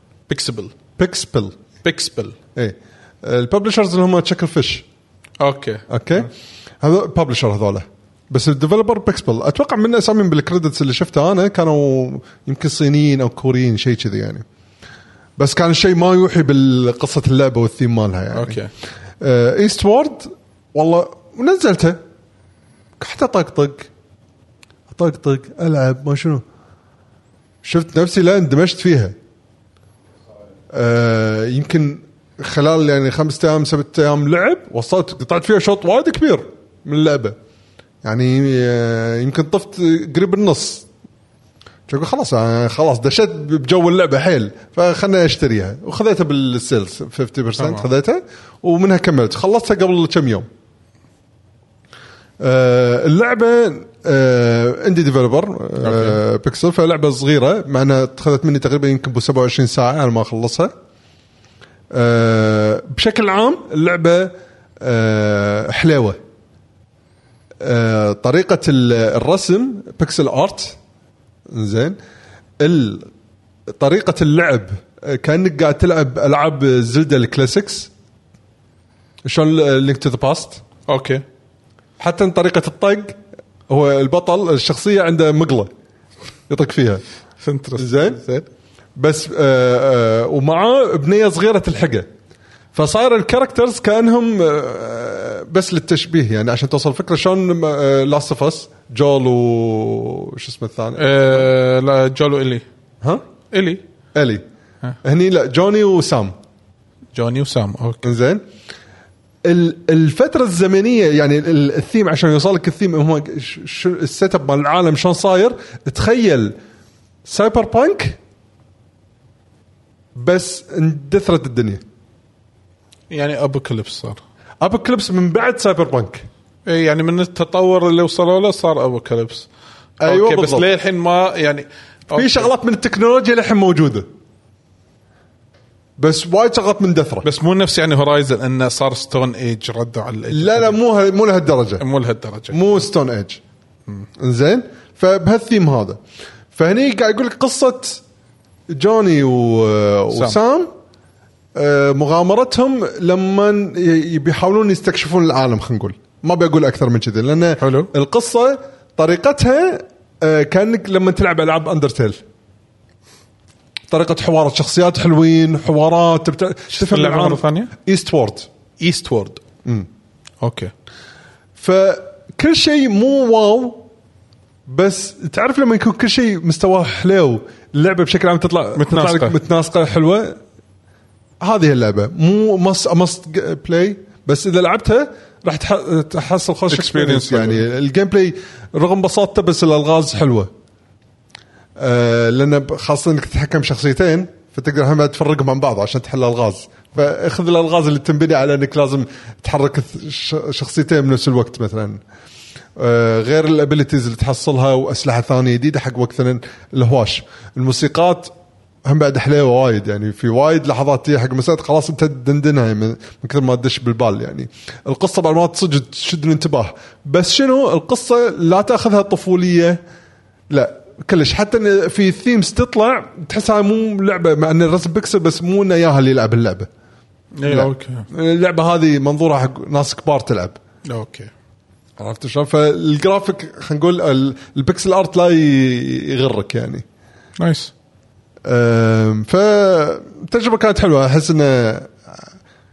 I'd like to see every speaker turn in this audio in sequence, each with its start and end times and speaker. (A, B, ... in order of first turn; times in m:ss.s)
0:00.3-0:00.7 A
0:01.0-0:01.6 B
0:01.8-0:02.4 A
0:02.5-0:04.8 B
0:05.4-0:06.3 A
0:05.9-0:06.3 B
0:06.8-0:14.4 B
0:15.4-0:18.6 B
0:18.3-0:18.7 A
0:19.2-0:22.0 B
0:23.0-0:23.9 B
0:24.9-0:26.4 B
0:27.6-0:29.2 B
0:30.7-0:37.4 B
0:38.0-0:40.8 B
0:41.9-0:50.5 B
0:47.6-0:47.8 A
0:52.4-1:00.7 B
0:55.8-0:56.2 A
1:01.9-1:06.2 B
1:07.6-1:10.8 B
1:11.5-1:12.0 B
1:12.6-1:13.1 B
1:13.8-1:17.9 B
1:19.2-1:20.6 B
1:20.9-1:21.2 A
1:22.0-1:25.7 B
1:26.5-1:27.0 B
1:27.4-1:28.4 A
1:27.8-1:28.2 B
1:29.0-1:32.1 B
1:32.7-1:41.5 B
1:41.0-1:42.6 A
1:43.5-1:43.8 A
1:44.1-1:44.4 B
1:45.0-1:46.3 B
1:47.1-1:48.0 A
1:48.0-1:48.4 B
1:49.4-1:56.6 B
1:57.2-1:58.2 B
2:00.1-2:01.8 B
2:03.1-2:04.2 A
2:04.6-2:06.2 B
2:06.6-2:09.5 A
2:10.0-2:10.6 B
2:10.0-2:12.5 A
2:12.1-2:14.1 B
2:16.0-2:17.3 B
2:17.2-2:20.8 A
2:20.3-2:21.8 B
2:21.8-2:22.8 A
2:22.5-2:23.4 B
2:24.2-2:26.0 B
2:26.5-2:28.0 B
2:28.7-2:30.7 B
2:31.5-2:42.2 B
2:37.6-2:37.9 A
2:43.9-2:48.5 B
2:46.7-2:47.7 A
2:48.8-2:49.4 A
2:50.4-2:50.7 A
2:51.6-2:53.8 B
2:54.6-3:00.4 B
2:58.8-2:59.4 A
3:01.4-3:10.5 B
3:06.7-3:07.6 A
3:11.8-3:22.0 B
3:22.8-3:28.3 B
3:28.8-3:39.8 B
3:40.5-3:46.7 B
3:47.3-3:48.0 A
3:47.4-3:50.6 B
3:50.8-3:51.3 A
3:52.0-3:56.8 B
3:57.4-3:57.7 A
3:58.4-4:02.2 B